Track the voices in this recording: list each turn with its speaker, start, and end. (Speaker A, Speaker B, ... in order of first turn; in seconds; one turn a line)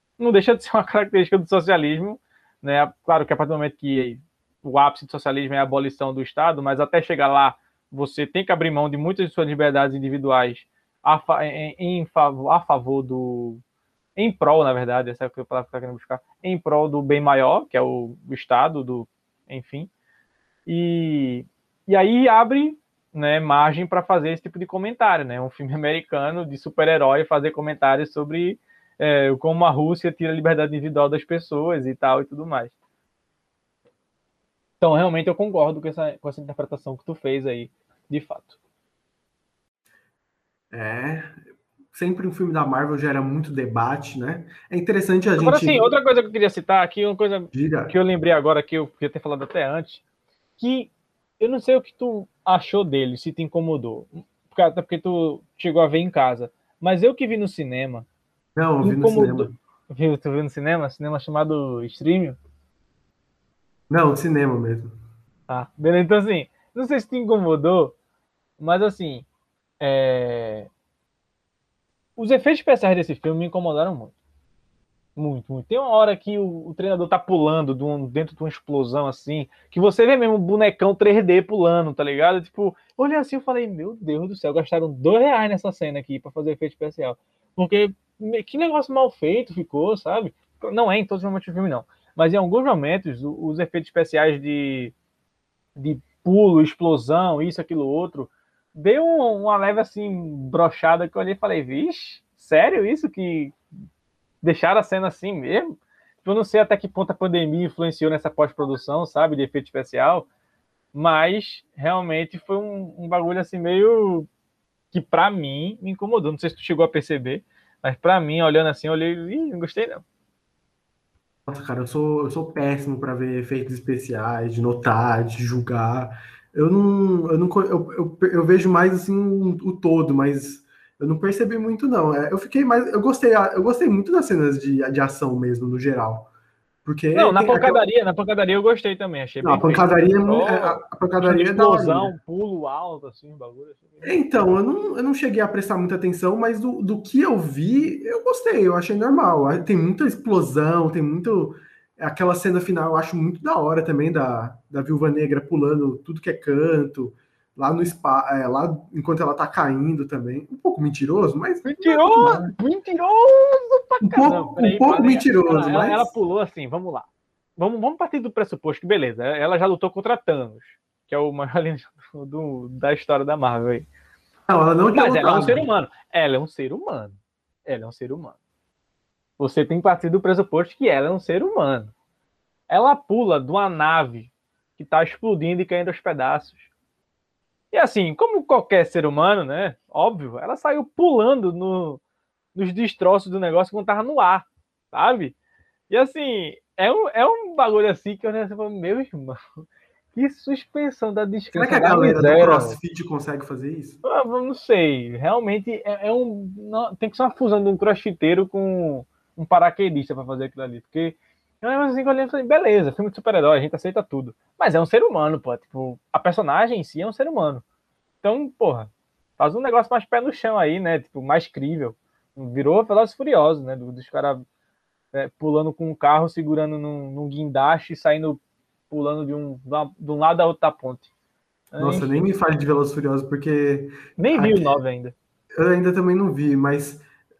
Speaker A: 0.2-13.6
Speaker A: 14.2-19.9
Speaker A: 20.7-32.7
Speaker A: 34.8-38.6
Speaker B: 40.7-41.4
Speaker B: 41.9-45.9
Speaker A: 45.4-50.0
Speaker B: 47.5-48.0
Speaker A: 50.6-58.1
Speaker B: 58.5-59.5
Speaker A: 58.8-62.4
Speaker B: 63.9-65.0
Speaker A: 65.5-68.0
Speaker A: 68.6-69.3
Speaker A: 69.8-70.7
Speaker A: 72.2-74.2
Speaker A: 75.2-94.9
Speaker A: 95.8-103.6
Speaker A: 104.4-110.3
Speaker A: 110.9-114.3
Speaker A: 114.9-120.0
Speaker B: 121.5-136.3
Speaker B: 136.8-137.8
Speaker A: 137.1-144.2
Speaker B: 139.4-142.1
Speaker B: 144.0-162.5
Speaker A: 161.7-173.9
Speaker B: 164.0-166.1
Speaker B: 174.5-175.7
Speaker A: 174.9-178.4
Speaker A: 179.4-181.9
Speaker A: 182.7-186.7
Speaker A: 187.7-192.0
Speaker A: 192.6-195.3
Speaker A: 195.9-202.8
Speaker B: 201.5-204.0
Speaker A: 204.0-217.6
Speaker A: 218.2-224.4
Speaker A: 225.1-231.1
Speaker A: 231.7-232.2
Speaker B: 231.8-234.8
Speaker A: 234.2-235.2
Speaker B: 235.6-237.0